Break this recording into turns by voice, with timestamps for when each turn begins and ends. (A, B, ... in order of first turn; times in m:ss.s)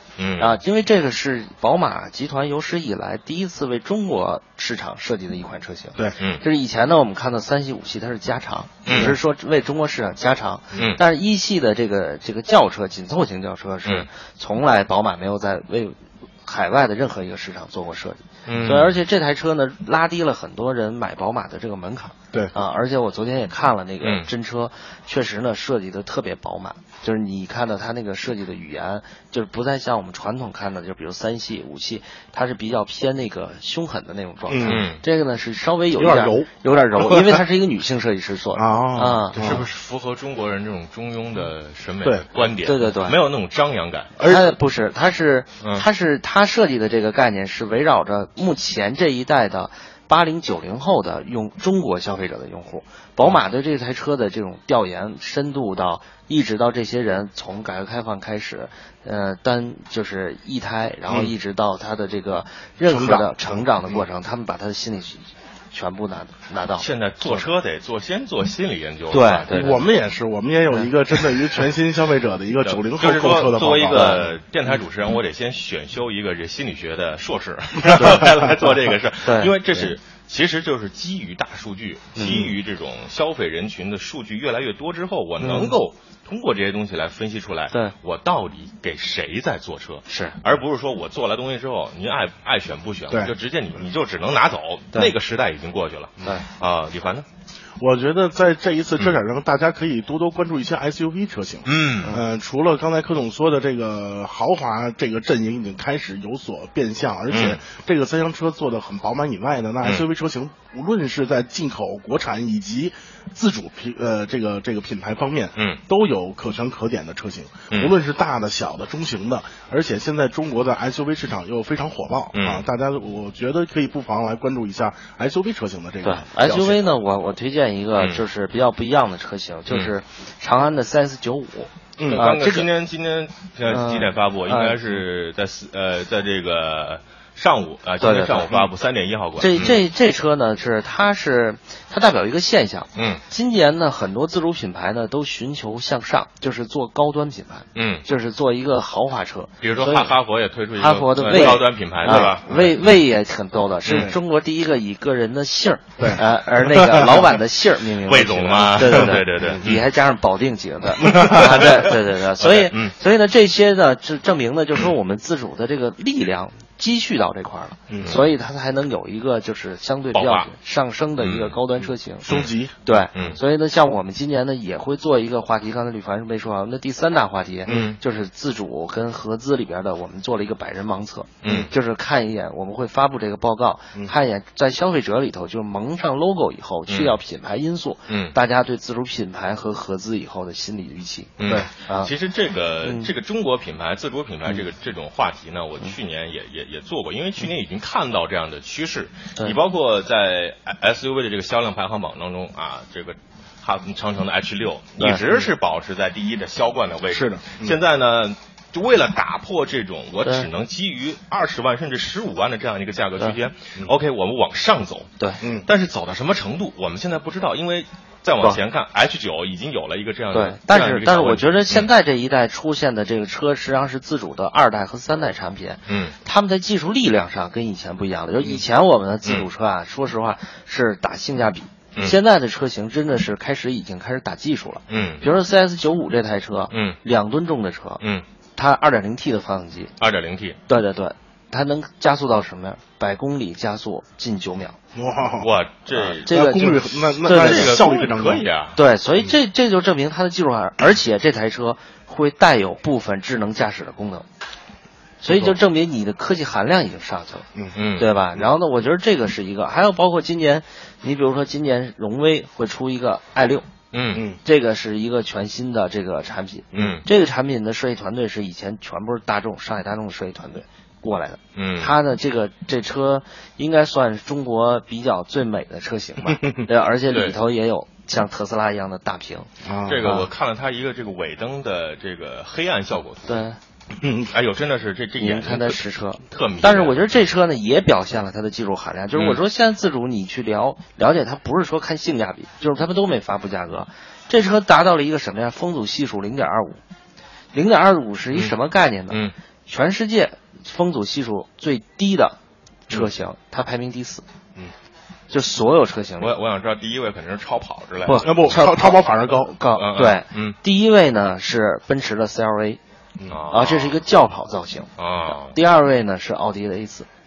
0:00.2-0:00.6 A
0:00.4-0:39.6 B
0:06.2-0:06.4 A
0:08.9-0:09.2 A
0:08.9-0:09.2 C
0:10.7-0:11.0 A
0:18.5-0:19.0 A
0:24.0-0:24.3 A
0:34.5-0:34.8 C
0:34.6-0:35.0 A
0:35.9-0:37.4 C
0:38.6-0:39.7 C
0:39.3-0:44.3 A
0:42.6-0:43.2 B
0:44.2-1:07.4 B
0:44.2-0:44.5 C
0:45.6-0:45.9 A
1:02.8-1:04.0 C
1:06.8-1:09.8 A
1:09.1-1:09.8 B
1:09.5-1:14.2 C
1:12.6-1:37.3 A
1:13.8-1:14.3 B
1:18.0-1:18.4 B
1:19.2-1:19.9 B
1:22.2-1:22.6 B
1:25.4-1:25.7 B
1:30.1-1:30.4 B
1:37.8-2:06.9 C
1:41.6-1:42.2 A
1:47.3-1:47.6 A
1:55.6-1:55.8 A
1:57.7-1:57.9 A
2:02.3-2:02.6 A
2:06.0-2:12.7 B
2:12.0-2:12.3 C
2:12.1-2:19.8 A
2:13.7-2:14.8 B
2:18.0-2:18.7 B
2:19.4-2:30.1 B
2:22.9-2:23.2 A
2:27.8-2:28.1 A
2:29.6-2:32.9 A
2:30.8-2:52.2 B
2:33.9-2:34.2 A
2:36.0-2:37.2 C
2:38.0-2:39.8 A
2:41.0-2:43.0 A
2:41.1-2:41.5 C
2:47.9-2:48.2 C
2:48.0-2:48.2 A
2:50.1-2:50.5 A
2:51.2-2:51.6 A
2:51.8-2:52.8 C
2:52.2-2:53.4 A
2:52.8-3:12.1 B
2:57.7-2:58.0 A
3:01.4-3:01.7 A
3:06.9-3:07.2 A
3:08.1-3:08.4 A
3:11.4-3:41.9 A
3:12.8-3:13.1 B
3:27.1-3:27.8 C
3:35.4-3:35.7 C
3:40.3-3:58.0 B
3:45.9-3:46.2 A
3:54.9-3:55.2 A
3:56.7-3:57.0 A
3:58.0-3:58.2 A
3:58.6-3:59.9 B
4:00.0-4:00.6 A
4:00.7-4:04.8 B
4:04.9-4:08.5 C
4:05.4-4:08.8 A
4:06.2-4:07.9 B
4:08.8-4:14.2 B
4:15.2-4:23.7 B
4:15.3-4:15.6 C
4:17.7-4:18.1 A
4:23.9-4:24.3 A
4:24.4-4:39.5 B
4:26.7-4:27.0 A
4:31.6-4:31.9 A
4:36.3-4:36.6 C
4:37.1-4:37.4 A
4:39.6-4:40.0 C
4:39.8-4:43.4 A
4:40.0-4:40.3 B
4:43.3-4:43.6 B
4:44.0-4:44.3 C
4:44.2-4:47.2 A
4:45.2-4:56.8 B
4:49.1-4:49.4 A
4:57.5-5:02.4 B
5:02.9-5:04.2 B
5:05.3-5:06.4 B
5:06.2-5:08.9 A
5:08.0-5:12.8 B
5:08.1-5:09.6 C
5:09.7-5:10.6 A
5:13.3-5:14.0 A
5:13.5-5:17.1 B
5:15.0-5:15.6 A